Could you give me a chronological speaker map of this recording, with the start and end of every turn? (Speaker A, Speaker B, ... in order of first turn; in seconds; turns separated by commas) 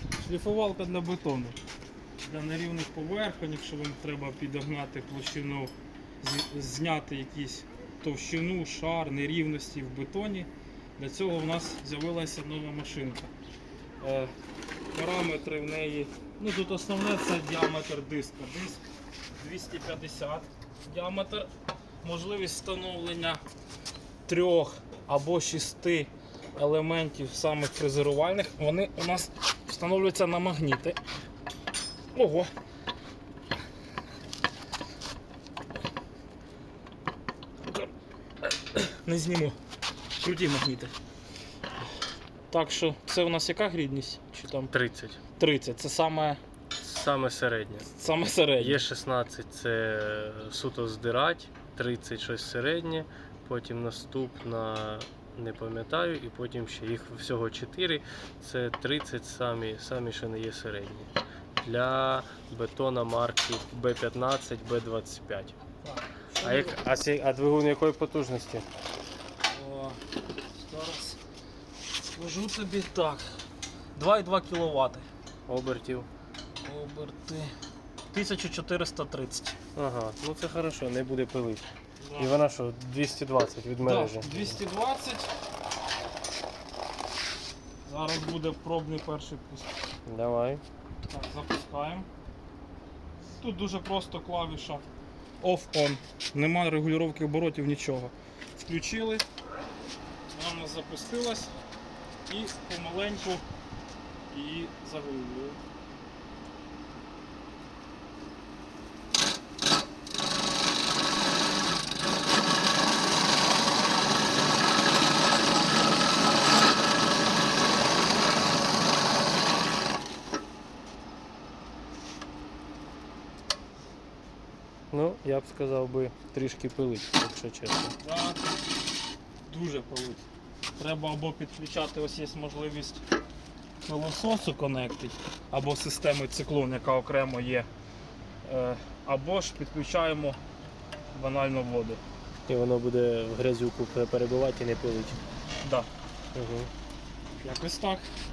Speaker A: 0.2-1.6, Speaker A: 2.2-13.3, Speaker A: 14.0-14.3, Speaker A: 14.9-18.8, Speaker A: 19.4-21.5, Speaker A: 22.0-23.4, Speaker A: 24.3-31.0, Speaker A: 32.1-32.5, Speaker A: 38.4-39.6, Speaker A: 40.2-40.9, Speaker A: 42.5-44.7, Speaker B: 44.7-45.2, Speaker A: 45.4-46.4, Speaker B: 46.8-47.9, Speaker A: 47.9-48.8, Speaker B: 48.6-65.6, Speaker A: 65.8-66.8, Speaker B: 66.4-68.7, Speaker A: 69.4-70.0, Speaker A: 70.5-71.2, Speaker A: 72.0-73.4, Speaker A: 74.0-75.1, Speaker B: 75.5-76.1, Speaker A: 76.6-77.5, Speaker A: 78.1-79.6, Speaker B: 79.8-84.6, Speaker A: 82.0-82.4, Speaker A: 83.8-85.3, Speaker A: 87.8-89.8, Speaker B: 90.1-90.6, Speaker A: 91.1-92.1, Speaker A: 93.4-94.8, Speaker A: 95.4-99.2, Speaker A: 100.3-101.5, Speaker A: 102.3-103.4, Speaker A: 104.3-105.6, Speaker B: 124.9-128.0, Speaker A: 128.0-128.6, Speaker A: 129.5-130.2, Speaker A: 130.8-133.1, Speaker A: 133.8-137.7, Speaker A: 138.4-140.4, Speaker A: 141.1-142.0, Speaker B: 142.5-145.2, Speaker A: 145.6-145.9, Speaker B: 146.3-146.7, Speaker A: 147.4-148.1